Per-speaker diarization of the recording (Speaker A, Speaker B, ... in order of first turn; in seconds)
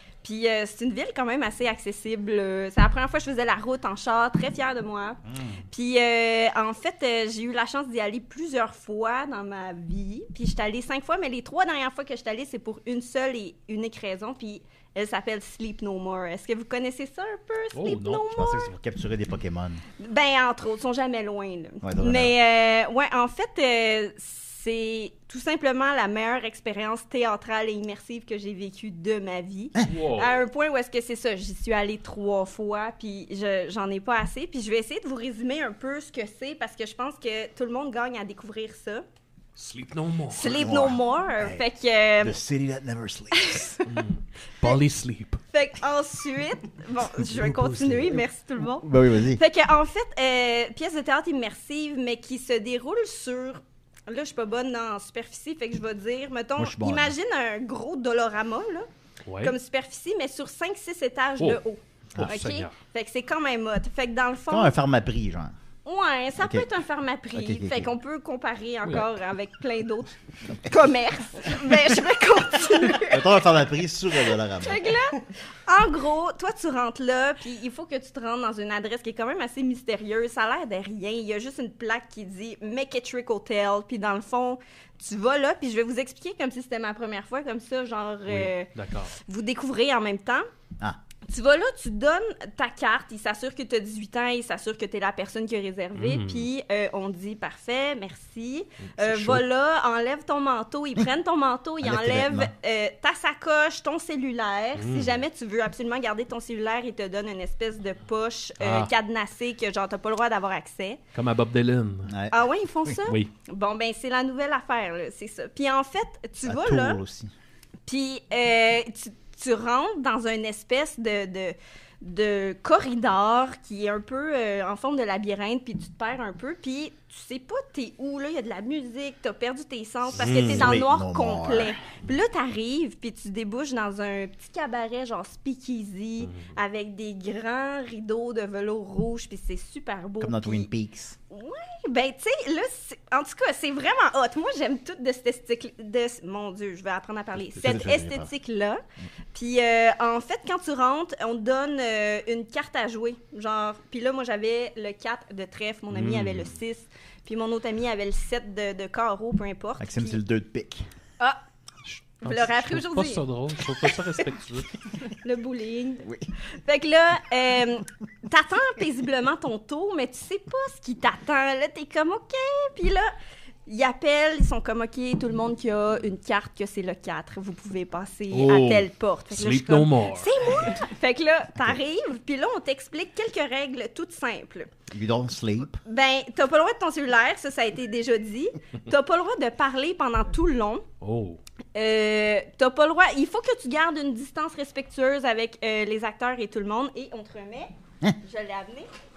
Speaker A: 0.2-5.2, 5.7-18.7, 20.0-39.0, 40.3-42.4, 43.3-43.9, 45.5-58.9, 59.4-64.7, 65.8-70.1, 70.6-73.4, 74.3-90.4, 91.3-111.0, 112.3-117.0, 117.9-140.7, 141.3-148.8, 149.3-160.2, 162.2-163.2, 165.2-166.1, 166.6-173.1, 173.7-184.7, 185.8-190.8, 191.7-198.9
Speaker B: 17.7-18.2, 29.8-30.4, 39.5-40.7, 43.9-45.4, 59.2-59.5, 62.2-62.8, 68.8-69.1, 88.3-89.1, 95.9-96.5, 104.8-105.2, 108.6-108.9, 111.1-112.1, 113.0-113.3, 130.2-130.8, 136.2-136.5, 147.5-147.8, 155.9-156.5, 161.8-164.7, 178.3-180.8, 191.0-191.4
Speaker C: 18.3-19.8, 21.8-22.3, 40.5-41.6, 42.2-43.8, 47.3-48.2, 48.8-49.4, 56.6-57.1, 62.1-62.4, 64.5-65.5, 66.4-66.7, 67.3-67.9, 73.0-75.0, 99.0-99.4, 101.8-102.5, 112.1-113.0, 116.4-117.3, 130.2-131.7, 140.2-141.2, 147.6-148.3, 159.8-160.9, 184.9-185.8